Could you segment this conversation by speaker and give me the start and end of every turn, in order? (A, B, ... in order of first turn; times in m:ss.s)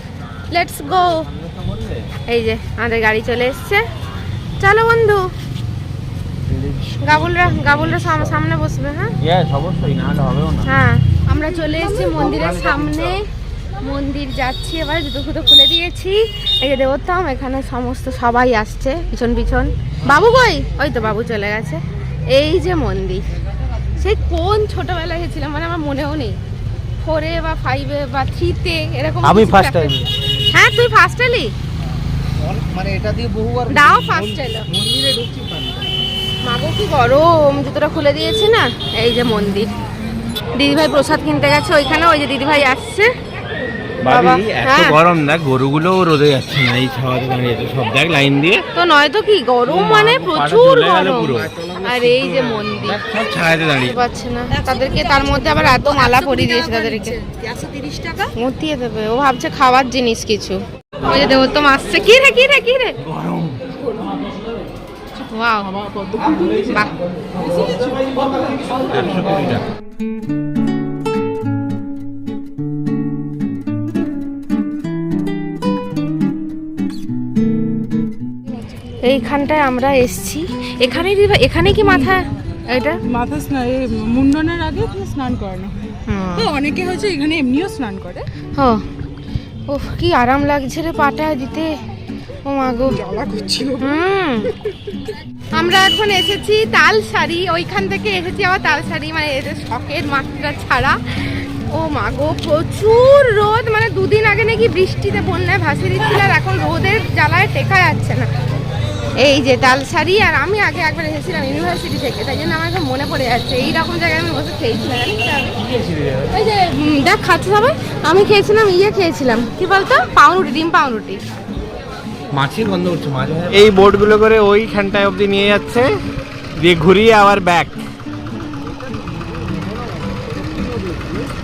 0:00.5-0:01.3 A
0:01.0-0:02.1 B
0:02.3-0:03.8 A
0:04.6-0:05.2 A
0:06.4-0:08.4 B
0:07.0-0:09.1 A
0:09.2-0:10.7 B
0:10.6-0:13.2 A
0:11.9-0:13.2 B
0:13.8-0:23.3 A
0:24.0-0:26.4 A
0:27.0-0:30.0 A
0:29.2-0:30.1 B
0:30.5-0:31.5 A
0:32.4-0:35.8 C
0:33.7-0:34.7 A
0:36.4-0:39.7 A
0:40.5-0:43.1 A
0:44.0-0:48.6 B
0:44.1-0:45.0 A
0:48.8-0:53.0 A
0:49.6-0:51.5 B
0:51.6-0:52.6 C
0:52.8-0:54.0 B
0:53.8-0:57.2 A
0:54.5-0:58.3 D
0:58.3-1:03.0 A
1:03.0-1:03.6 B
1:05.2-1:05.7 A
1:05.7-1:08.8 D
1:06.7-1:06.9 A
1:08.7-1:09.6 B
1:18.8-1:23.0 A
1:23.1-1:28.3 D
1:26.0-1:26.5 A
1:28.5-1:28.8 A
1:29.7-1:31.7 A
1:32.4-1:33.0 A
1:32.9-1:34.0 D
1:33.8-1:34.5 A
1:35.5-1:48.3 A
1:49.2-1:55.6 A
1:55.6-1:56.3 B
1:56.3-2:01.2 A
2:02.3-2:05.9 B
2:06.6-2:07.8 B
2:08.6-2:11.3 C